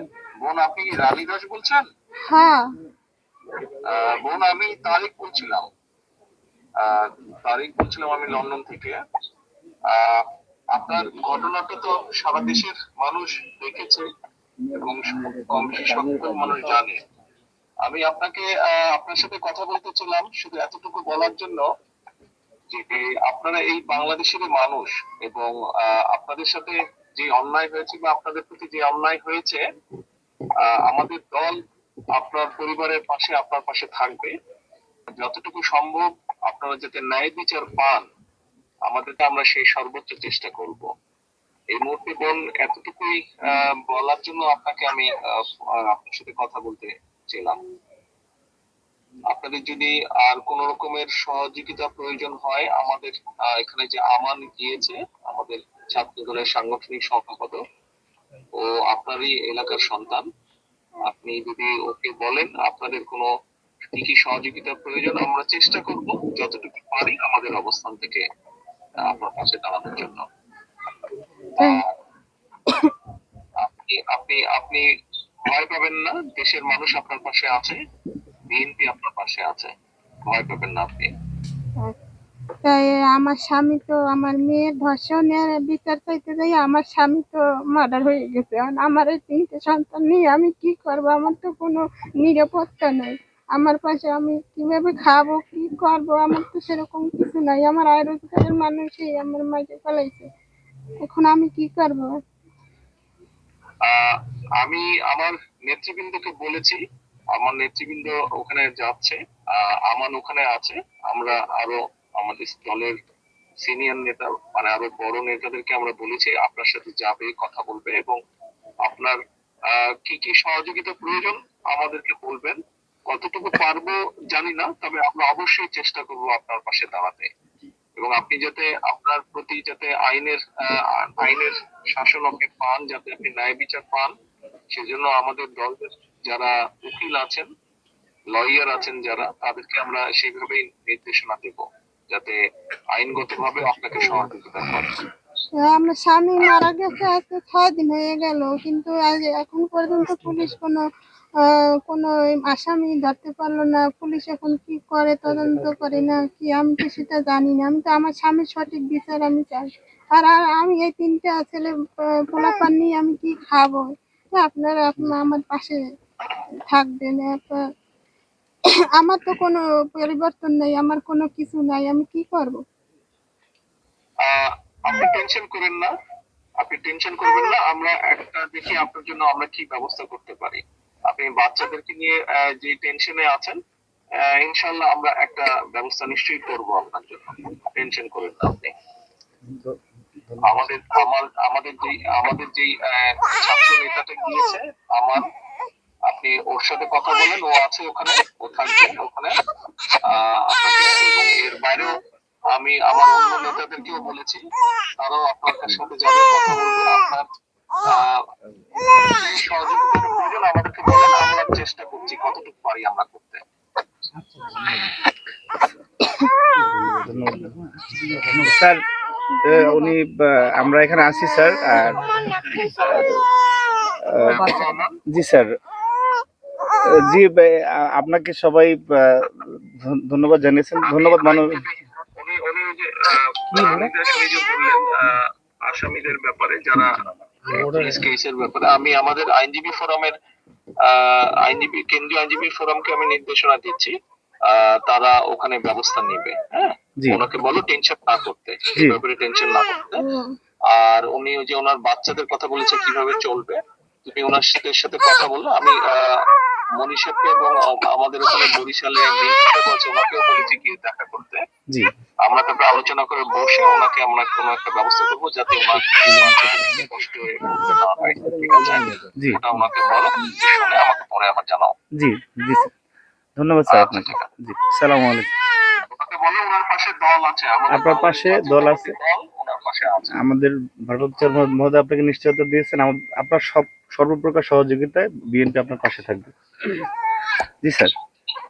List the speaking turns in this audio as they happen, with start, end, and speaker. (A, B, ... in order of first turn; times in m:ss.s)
0:00.4-0:01.8 A
0:02.3-0:02.6 B
0:03.8-0:05.6 A
0:06.8-0:09.0 A
0:09.9-0:14.0 A
0:14.7-0:17.0 A
0:17.8-0:21.6 A
0:22.7-0:29.6 A
0:30.6-0:31.6 A
0:32.2-0:34.3 A
0:35.1-0:38.0 A
0:38.9-0:40.8 A
0:41.7-0:45.1 A
0:45.8-0:47.6 A
0:49.3-0:57.6 A
0:58.6-1:00.2 A
1:01.1-1:03.3 A
1:03.9-1:08.2 A
1:09.0-1:10.2 A
1:11.6-1:11.8 A
1:13.6-1:14.8 A
1:15.5-1:17.8 A
1:18.5-1:19.7 A
1:20.3-1:21.1 A
1:22.6-1:40.2 B
1:41.0-1:42.1 B
1:43.8-1:46.8 A
1:47.3-1:52.9 A
1:53.6-1:58.2 A
1:58.8-1:59.2 A
1:59.7-2:07.3 A
2:08.0-2:14.1 A
2:14.7-2:17.5 A
2:18.3-2:22.4 A
2:22.9-2:25.0 A
2:25.6-2:30.8 B
2:31.4-2:41.7 B
2:42.3-2:45.8 B
2:46.7-2:47.6 B
2:49.0-2:52.6 B
2:54.2-2:55.9 A
2:56.6-3:03.6 A
3:04.2-3:08.7 A
3:10.4-3:15.3 A
3:16.1-3:19.3 A
3:20.1-3:22.0 A
3:22.5-3:24.4 A
3:25.0-3:27.2 A
3:27.9-3:28.2 A
3:28.8-3:33.4 A
3:37.0-3:37.5 C
3:38.3-3:38.8 C
3:39.4-3:42.1 C
3:39.4-3:39.9 B
3:42.5-3:43.1 A
3:42.8-3:43.1 C
3:44.0-3:45.5 C
3:44.1-3:45.0 A
3:46.8-3:51.6 C
3:50.8-4:00.1 A
4:00.8-4:03.9 A
4:04.5-4:10.0 A
4:10.0-4:10.3 B
4:10.7-4:16.2 A
4:16.8-4:21.4 A
4:22.2-4:31.7 A
4:29.2-4:29.4 C
4:32.0-4:32.7 C
4:33.4-4:35.3 C
4:33.7-4:34.3 A
4:35.9-4:40.2 A
4:37.7-4:38.9 C
4:40.2-4:46.7 C
4:47.6-4:47.9 C